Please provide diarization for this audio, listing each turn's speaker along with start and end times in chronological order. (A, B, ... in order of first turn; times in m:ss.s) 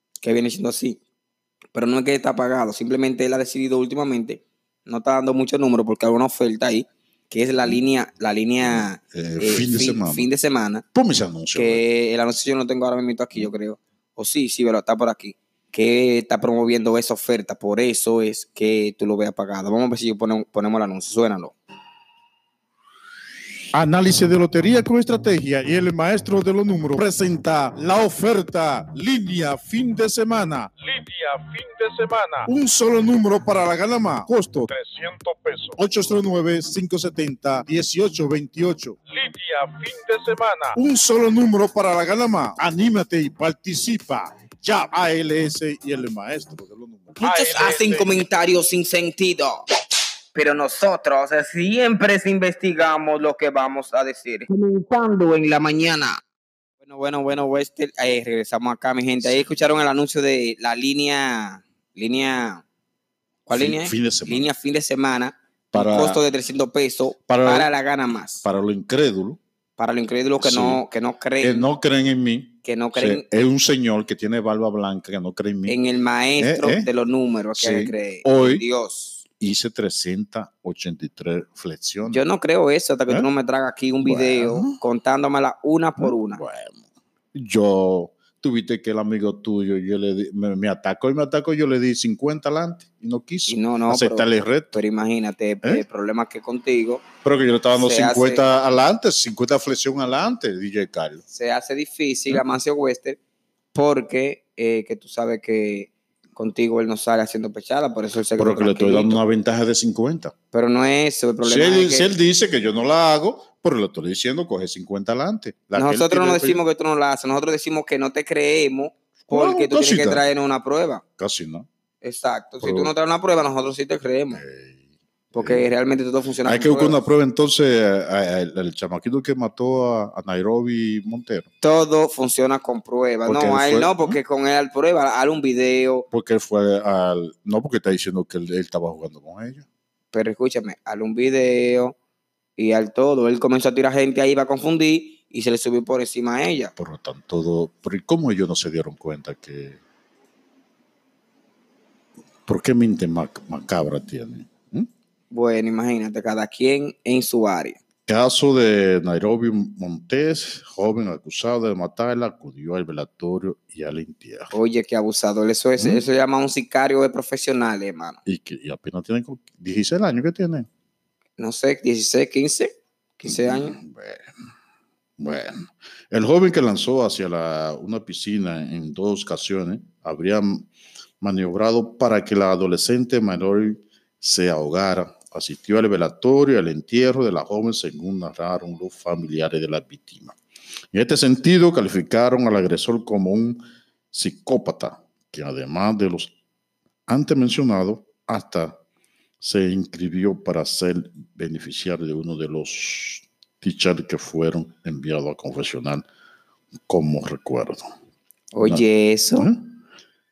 0:00.2-0:01.0 A
0:01.7-0:10.8 A
0:08.6-0:10.3 B
0:10.9-0:11.8 B
0:11.5-0:21.5 A
0:23.7-0:30.7 B
0:30.8-0:32.5 C
0:32.4-0:34.7 B
0:34.7-0:35.8 C
0:35.8-0:39.0 B
0:39.1-0:40.8 C
0:40.7-0:47.2 B
0:47.2-0:49.6 A
0:47.2-0:48.2 C
0:50.3-0:56.2 A
0:56.8-1:02.6 A
1:03.4-1:08.4 A
1:03.5-1:04.5 B
1:05.7-1:06.2 B
1:07.3-1:07.7 B
1:08.4-1:09.4 B
1:09.8-1:11.7 A
1:10.4-1:10.8 B
1:11.4-1:15.8 B
1:12.6-1:13.2 A
1:15.7-1:19.2 A
1:16.4-1:16.9 B
1:17.6-1:18.6 B
1:19.4-1:22.2 B
1:22.1-1:26.4 A
1:24.0-1:24.8 B
1:26.0-1:34.8 B
1:33.5-1:37.0 A
1:37.2-1:41.2 B
1:37.7-1:38.4 A
1:41.3-1:43.2 A
1:43.7-1:49.2 A
1:48.4-1:50.3 B
1:50.5-1:52.1 A
1:51.4-1:56.6 B
1:55.8-2:01.0 A
1:59.2-2:00.2 B
2:01.2-2:01.7 B
2:02.0-2:04.4 A
2:02.6-2:02.9 B
2:04.3-2:05.6 B
2:05.3-2:07.0 A
2:06.4-2:11.5 B
2:11.6-2:16.1 A
2:13.2-2:14.2 B
2:16.1-2:19.7 B
2:20.1-2:21.9 A
2:22.6-2:26.7 A
2:26.8-2:29.8 B
2:32.4-2:34.9 B
2:35.3-2:37.8 A
2:38.1-2:44.5 B
2:44.5-2:48.2 A
2:45.8-2:46.0 B
2:48.2-2:50.7 B
2:51.4-2:53.8 A
2:53.2-2:54.3 B
2:55.2-3:00.7 B
3:01.2-3:10.4 B
3:10.9-3:13.6 B
3:14.1-3:16.3 B
3:17.1-3:18.8 B
3:19.4-3:26.0 B
3:26.9-3:27.9 B
3:28.5-3:29.5 A
3:29.4-3:29.7 B